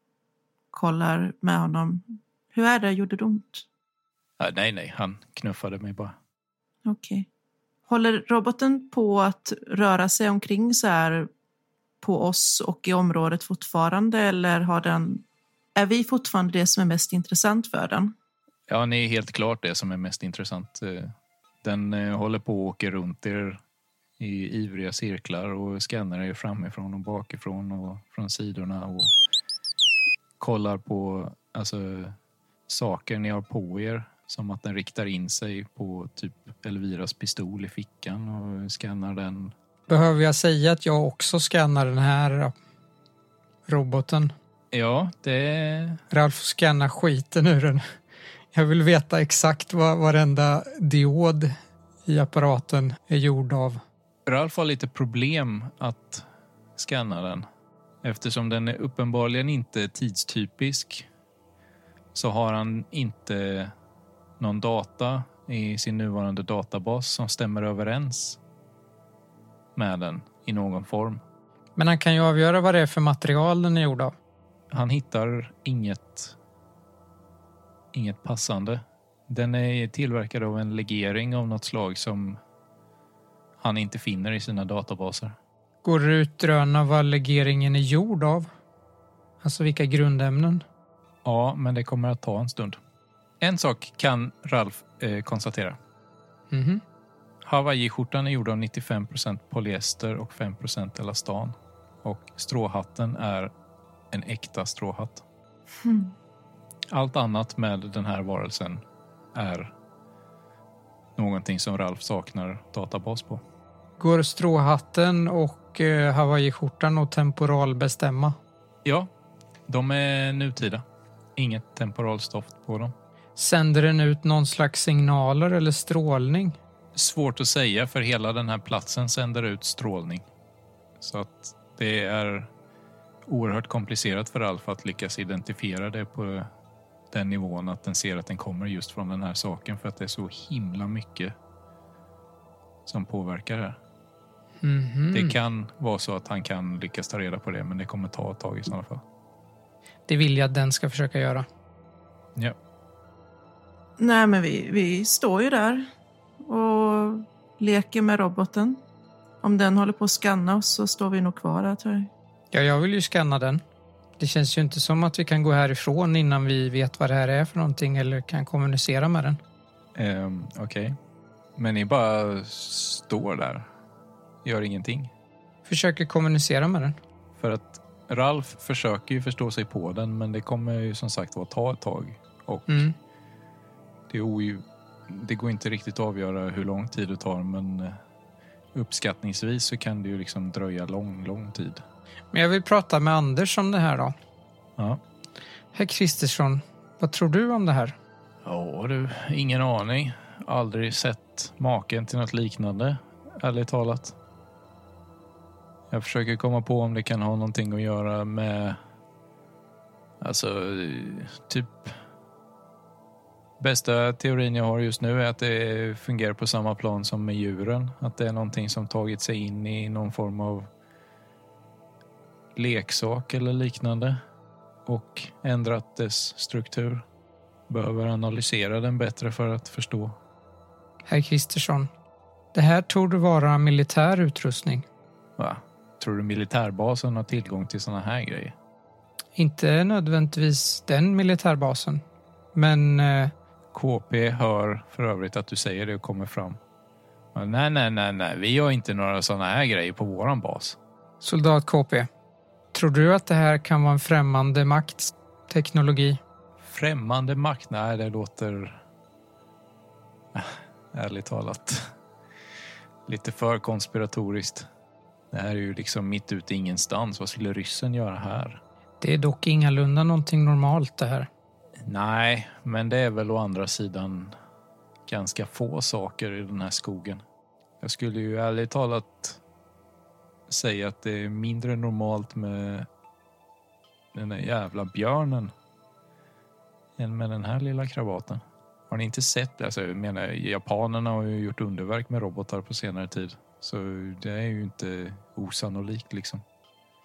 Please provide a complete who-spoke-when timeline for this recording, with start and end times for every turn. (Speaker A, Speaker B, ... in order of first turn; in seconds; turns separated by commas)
Speaker A: 0.7-3.6, Speaker B: 4.4-6.2, Speaker A: 6.8-7.3, Speaker A: 7.9-11.3, Speaker A: 12.0-15.2, Speaker A: 15.8-18.1, Speaker B: 18.7-23.6, Speaker B: 24.2-29.1, Speaker B: 30.4-32.2, Speaker B: 32.7-39.5, Speaker C: 39.9-42.5, Speaker C: 43.7-44.3, Speaker B: 44.7-46.0, Speaker C: 46.1-47.9, Speaker C: 48.5-51.5, Speaker C: 52.1-53.8, Speaker B: 54.3-56.2, Speaker B: 56.8-57.5, Speaker B: 58.0-61.1, Speaker B: 62.1-63.7, Speaker B: 64.4-68.4, Speaker B: 69.8-71.2, Speaker C: 71.8-74.1, Speaker B: 74.7-76.4, Speaker B: 77.9-82.4, Speaker B: 83.6-85.4, Speaker C: 85.8-88.5, Speaker C: 89.4-90.6, Speaker B: 91.2-92.8, Speaker B: 93.4-95.8, Speaker C: 96.5-96.8, Speaker B: 97.4-103.5, Speaker B: 104.1-105.2, Speaker A: 105.8-106.1, Speaker B: 106.9-108.8, Speaker B: 109.3-109.7, Speaker B: 111.2-113.4, Speaker C: 114.0-118.4, Speaker B: 119.7-120.8, Speaker B: 121.4-122.9, Speaker C: 123.4-126.6, Speaker B: 127.0-130.3, Speaker B: 131.0-132.5, Speaker B: 133.3-136.5, Speaker B: 137.1-141.3, Speaker B: 142.9-143.8, Speaker C: 144.6-145.3, Speaker B: 145.1-149.0, Speaker C: 150.1-151.5, Speaker A: 154.0-155.9, Speaker A: 156.4-158.8, Speaker A: 159.4-162.1, Speaker C: 162.5-163.6, Speaker C: 164.2-169.4, Speaker B: 170.0-171.0, Speaker B: 171.6-173.7, Speaker B: 174.4-175.1, Speaker C: 175.7-177.0, Speaker B: 177.4-182.9, Speaker C: 182.7-182.9, Speaker B: 184.1-188.0, Speaker B: 188.7-191.8, Speaker C: 192.3-194.2, Speaker C: 195.7-197.9, Speaker B: 198.4-204.2, Speaker B: 205.9-208.8, Speaker B: 210.2-212.0, Speaker B: 213.6-220.7, Speaker B: 222.6-224.2, Speaker B: 224.9-227.0, Speaker B: 227.7-230.2, Speaker C: 231.1-231.9, Speaker C: 232.5-234.8, Speaker B: 235.4-238.6, Speaker C: 239.4-242.0, Speaker C: 242.5-243.3, Speaker B: 243.7-246.6, Speaker B: 247.3-250.8, Speaker C: 251.2-252.1, Speaker C: 252.7-256.2, Speaker B: 256.6-258.8, Speaker B: 260.3-261.9, Speaker B: 263.1-264.7, Speaker B: 265.3-268.6, Speaker C: 269.0-271.3, Speaker B: 271.8-274.4, Speaker B: 275.1-277.2, Speaker B: 277.8-279.4, Speaker B: 280.5-282.9, Speaker B: 284.1-285.5, Speaker B: 287.0-296.4